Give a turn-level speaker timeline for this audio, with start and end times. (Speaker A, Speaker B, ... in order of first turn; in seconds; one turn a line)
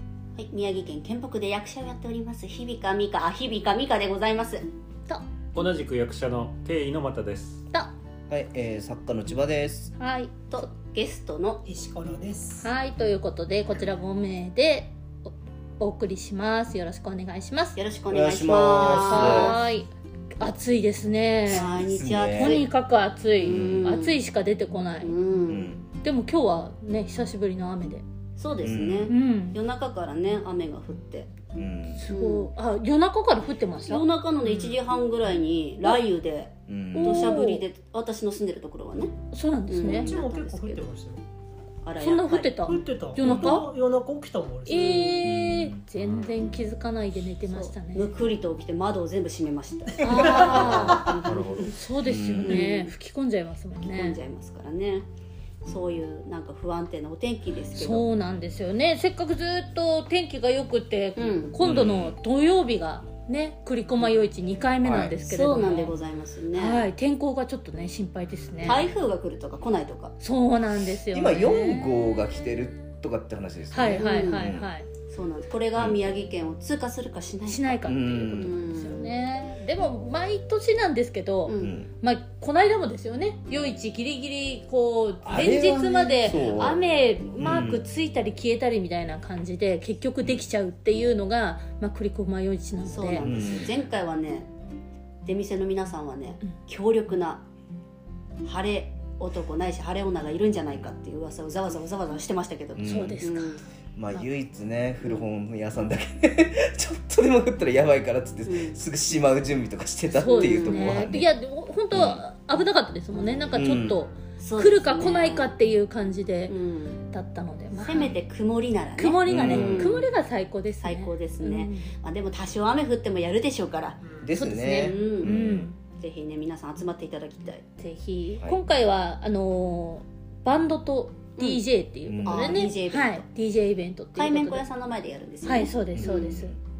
Speaker A: 0.4-4.6
Speaker B: 5.5-7.6
Speaker C: 8.3-9.9
Speaker D: 10.0-10.7
Speaker A: 10.5-11.6
Speaker E: 11.6-12.7
Speaker D: 12.6-17.8
Speaker A: 17.8-19.6
Speaker C: 18.1-19.6
Speaker D: 18.8-19.9
Speaker D: 20.4-21.8
Speaker A: 21.5-22.7
Speaker C: 21.5-22.6
Speaker D: 22.3-25.1
Speaker A: 23.4-24.2
Speaker C: 23.4-23.8
Speaker A: 25.0-25.7
Speaker C: 25.5-25.8
Speaker D: 26.0-28.0
Speaker A: 28.4-31.5
Speaker C: 28.6-29.1
Speaker D: 29.1-29.6
Speaker C: 31.6-32.0
Speaker D: 31.9-34.8
Speaker A: 32.1-32.5
Speaker A: 33.8-39.1
Speaker C: 36.7-37.3
Speaker D: 36.9-37.6
Speaker D: 39.3-40.1
Speaker A: 39.7-40.8
Speaker E: 39.8-41.2
Speaker A: 41.8-42.7
Speaker D: 42.0-43.7
Speaker E: 42.6-45.1
Speaker C: 43.2-43.5
Speaker D: 44.6-48.1
Speaker A: 44.8-45.2
Speaker C: 45.2-45.8
Speaker B: 46.0-46.3
Speaker A: 47.5-51.7
Speaker D: 50.0-54.2
Speaker B: 50.4-51.7
Speaker C: 52.0-52.6
Speaker A: 52.4-52.9
Speaker A: 53.8-55.0
Speaker A: 55.6-58.1
Speaker D: 57.7-66.0
Speaker A: 61.2-61.6
Speaker C: 61.6-62.2
Speaker C: 64.8-65.1
Speaker A: 65.2-66.9
Speaker D: 66.5-68.9
Speaker A: 68.6-70.1
Speaker D: 70.2-71.9
Speaker C: 71.1-74.7
Speaker D: 73.7-74.9
Speaker A: 73.8-74.5
Speaker A: 75.1-77.8
Speaker D: 77.5-93.2
Speaker C: 77.8-78.5
Speaker A: 78.4-79.1
Speaker A: 81.5-81.8
Speaker C: 81.6-81.9
Speaker C: 85.2-86.8
Speaker C: 87.4-87.8
Speaker A: 92.8-94.5
Speaker C: 93.2-93.8
Speaker A: 95.2-97.4
Speaker A: 98.4-103.6
Speaker C: 102.8-103.3
Speaker D: 102.8-103.5
Speaker C: 104.0-111.3
Speaker A: 108.5-108.8
Speaker D: 110.1-118.2
Speaker A: 110.2-111.0
Speaker C: 111.9-112.2
Speaker C: 113.5-114.0
Speaker A: 114.4-115.5
Speaker A: 116.5-117.0
Speaker A: 117.7-120.1
Speaker D: 119.0-121.9
Speaker C: 119.2-120.0
Speaker A: 120.8-124.0
Speaker E: 124.0-124.3
Speaker C: 124.2-125.7
Speaker D: 124.3-125.7
Speaker A: 124.8-125.3
Speaker A: 125.9-127.6
Speaker D: 127.8-134.6
Speaker A: 131.4-131.6
Speaker C: 132.0-132.7
Speaker A: 132.2-133.2
Speaker A: 134.2-136.3
Speaker D: 135.4-136.5
Speaker C: 135.9-136.6